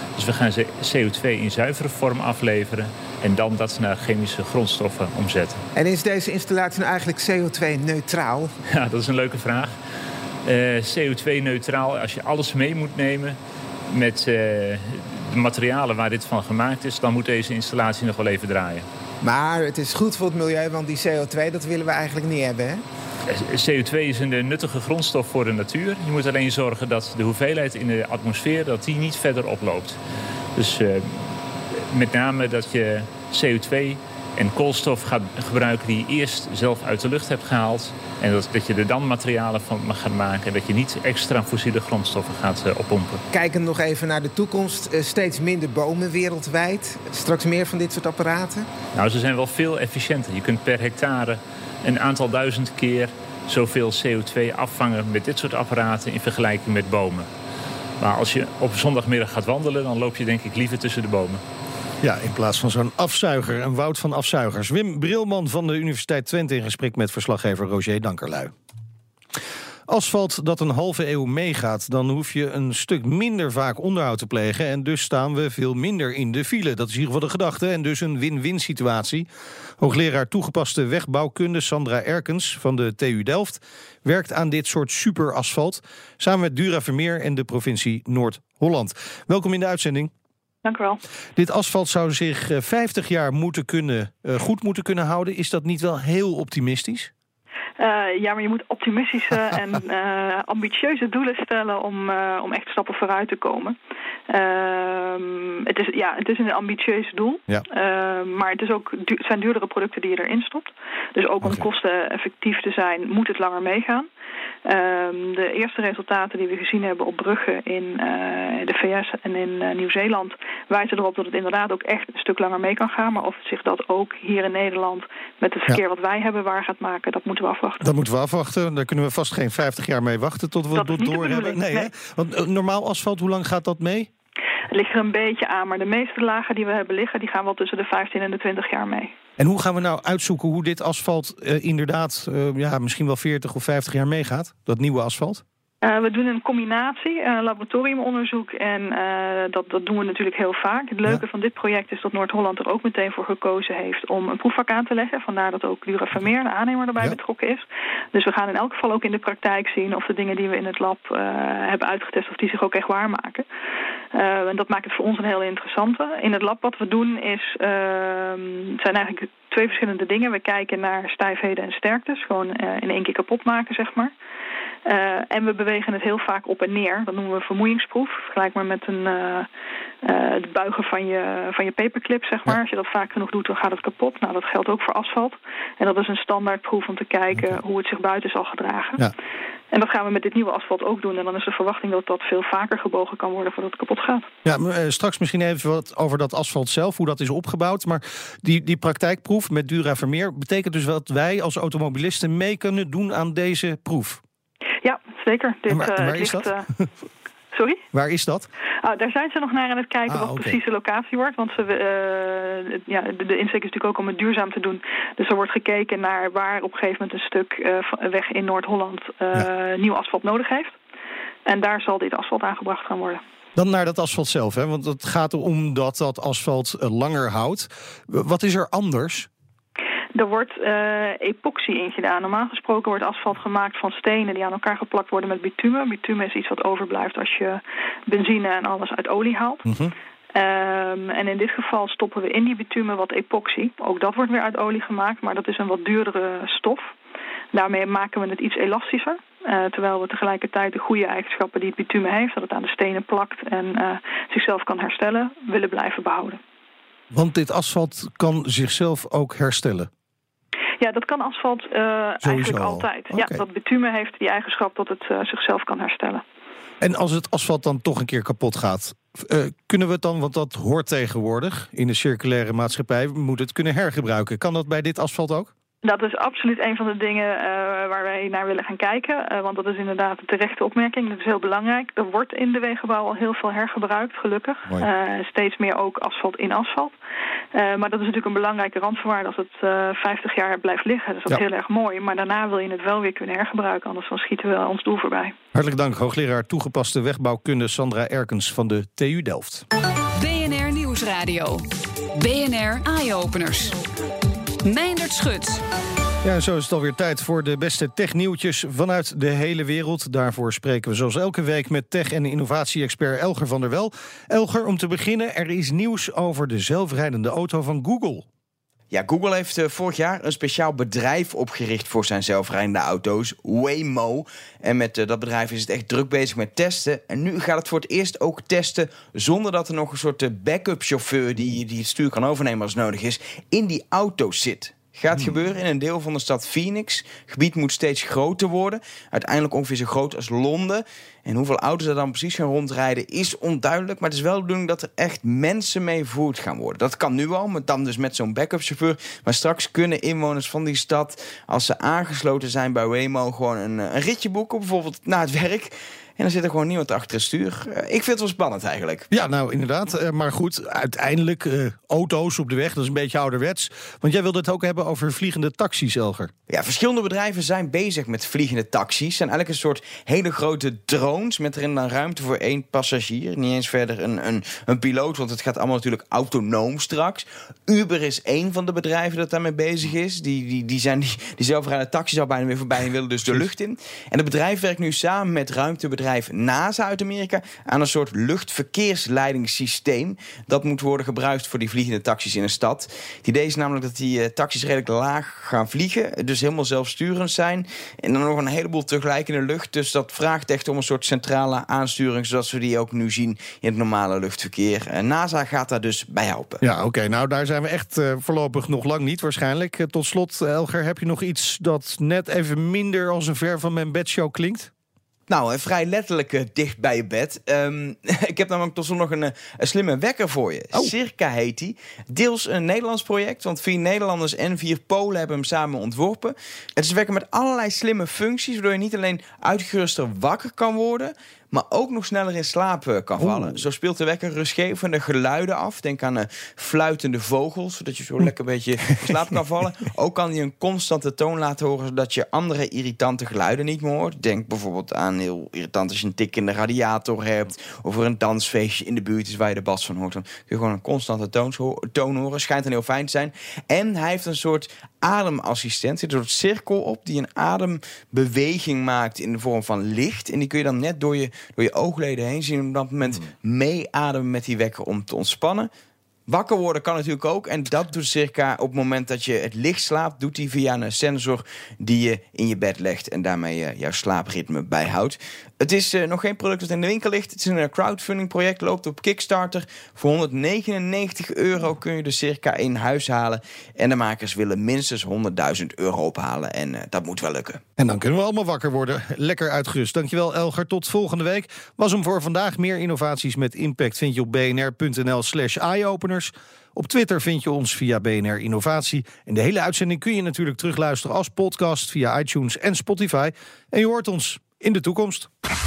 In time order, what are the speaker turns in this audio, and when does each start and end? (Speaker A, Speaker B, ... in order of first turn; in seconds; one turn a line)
Speaker A: 0.2-5.6
Speaker B: 5.8-8.5
Speaker A: 8.7-9.7
Speaker A: 10.4-13.4
Speaker A: 13.9-18.9
Speaker B: 19.2-22.8
Speaker A: 23.3-30.0
Speaker A: 30.6-43.2
Speaker B: 43.3-48.7
Speaker A: 48.9-57.3
Speaker A: 58.0-61.4
Speaker C: 62.0-68.5
Speaker C: 69.9-79.3
Speaker C: 79.8-90.1
Speaker D: 90.6-91.0
Speaker C: 91.3-97.1
Speaker D: 97.8-103.8
Speaker D: 104.3-114.1
Speaker D: 114.6-127.8
Speaker C: 127.8-134.1
Speaker D: 130.7-131.9
Speaker D: 134.7-139.1
Speaker C: 139.4-145.4
Speaker D: 145.8-163.4
Speaker D: 164.1-174.1
Speaker D: 174.8-179.5
Speaker D: 180.0-189.0
Speaker D: 189.7-194.3
Speaker C: 194.4-204.2
Speaker D: 204.8-206.6
Speaker C: 205.7-206.9
Speaker D: 207.5-207.8
Speaker C: 207.9-208.5
Speaker D: 208.8-220.8
Speaker C: 210.1-210.6
Speaker D: 221.4-223.2
Speaker C: 223.6-229.3
Speaker D: 230.1-239.7
Speaker C: 239.7-239.9
Speaker D: 240.3-246.9
Speaker D: 247.5-256.4
Speaker C: 257.1-259.9
Speaker D: 260.8-266.2
Speaker C: 262.2-263.4
Speaker C: 266.8-275.5
Speaker D: 275.8-286.9
Speaker D: 287.5-295.3
Speaker C: 295.5-299.6
Speaker E: 300.2-303.8
Speaker E: 304.6-305.6
Speaker C: 306.2-318.2
Speaker F: 318.9-359.1
Speaker C: 359.1-366.3
Speaker F: 366.5-406.6
Speaker C: 406.6-414.7
Speaker F: 415.3-465.7
Speaker C: 433.2-433.6
Speaker F: 466.3-487.6
Speaker C: 487.8-505.3